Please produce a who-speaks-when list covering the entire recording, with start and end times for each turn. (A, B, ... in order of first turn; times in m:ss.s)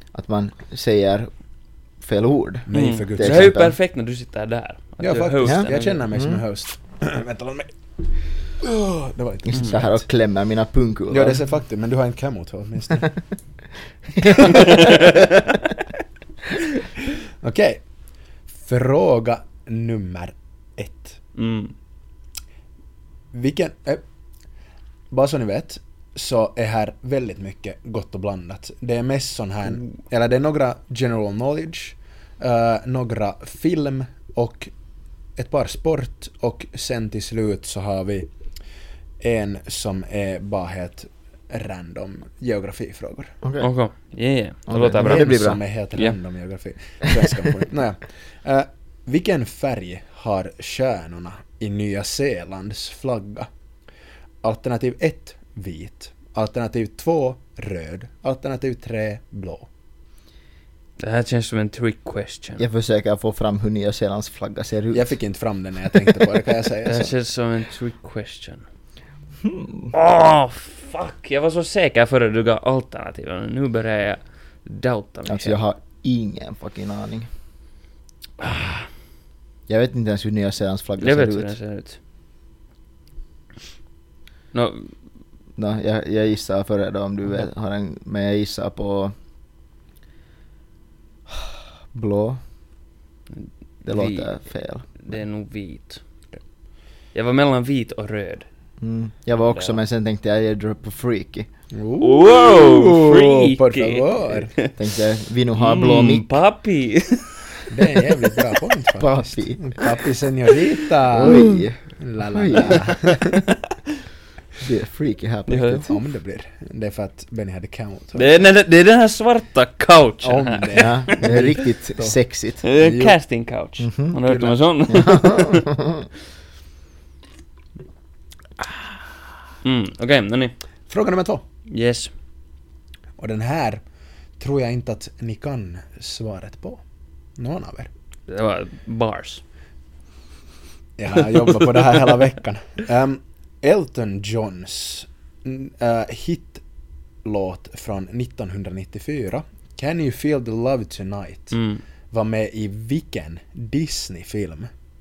0:00.1-0:01.3 A
0:02.0-0:03.7 A
0:02.7-0:03.6 B
0:02.7-0:06.0 C
0:05.0-0:07.7 B
0:05.4-0:06.4 A
0:08.6-0:10.0 B
0:09.4-0:11.4 A
0:09.5-0:09.8 C
0:11.1-0:13.1 B
0:14.2-0:14.7 A
0:14.3-0:15.0 B
0:14.4-0:15.5 C
0:17.4-0:17.8 B
0:18.5-0:21.2 B
0:21.3-0:21.7 C
0:23.3-0:24.0 B
0:25.1-0:34.7 B
0:35.4-0:38.3 B
0:39.2-0:43.4 B
0:43.4-0:43.7 A
0:43.6-0:46.2 C
0:44.7-0:45.6 A
0:44.9-0:53.5 B
0:54.4-0:59.7 B
1:01.0-1:02.6 C
1:02.6-1:05.1 A
1:04.9-1:07.1 B
1:06.8-1:08.6 C
1:09.4-1:09.9 A
1:09.9-1:15.6 C
1:15.2-1:17.3 A
1:18.4-1:18.8 C
1:19.7-1:21.5 A
1:21.0-1:22.0 C
1:24.5-1:24.9 C
1:25.6-1:29.1 A
1:31.3-1:32.4 A
1:33.4-1:34.3 C
1:33.8-1:35.1 A
1:34.8-1:36.0 C
1:37.1-1:38.4 C
1:38.8-1:41.5 A
1:39.5-1:39.8 C
1:41.7-1:44.5 B
1:42.0-1:44.8 C
1:44.8-1:46.3 A
1:45.5-1:47.6 C
1:47.7-1:53.4 B
1:49.0-1:49.6 A
1:51.1-1:52.9 A
1:51.2-1:51.6 C
1:54.6-1:55.9 A
1:55.5-1:55.9 C
1:55.8-1:58.3 B
1:58.1-2:01.5 C
2:00.2-2:03.2 B
2:00.8-2:02.6 A
2:02.6-2:05.7 C
2:03.8-2:04.1 A
2:04.2-2:04.6 B
2:04.9-2:06.0 A
2:09.6-2:10.5 C
2:10.9-2:11.4 B
2:11.7-2:12.1 C
2:13.2-2:13.8 B
2:14.4-2:16.8 B
2:17.4-2:17.9 B
2:18.3-2:19.4 C
2:21.0-2:26.6 B
2:21.4-2:22.1 C
2:27.2-2:31.6 B
2:31.5-2:31.8 C
2:32.1-2:34.7 B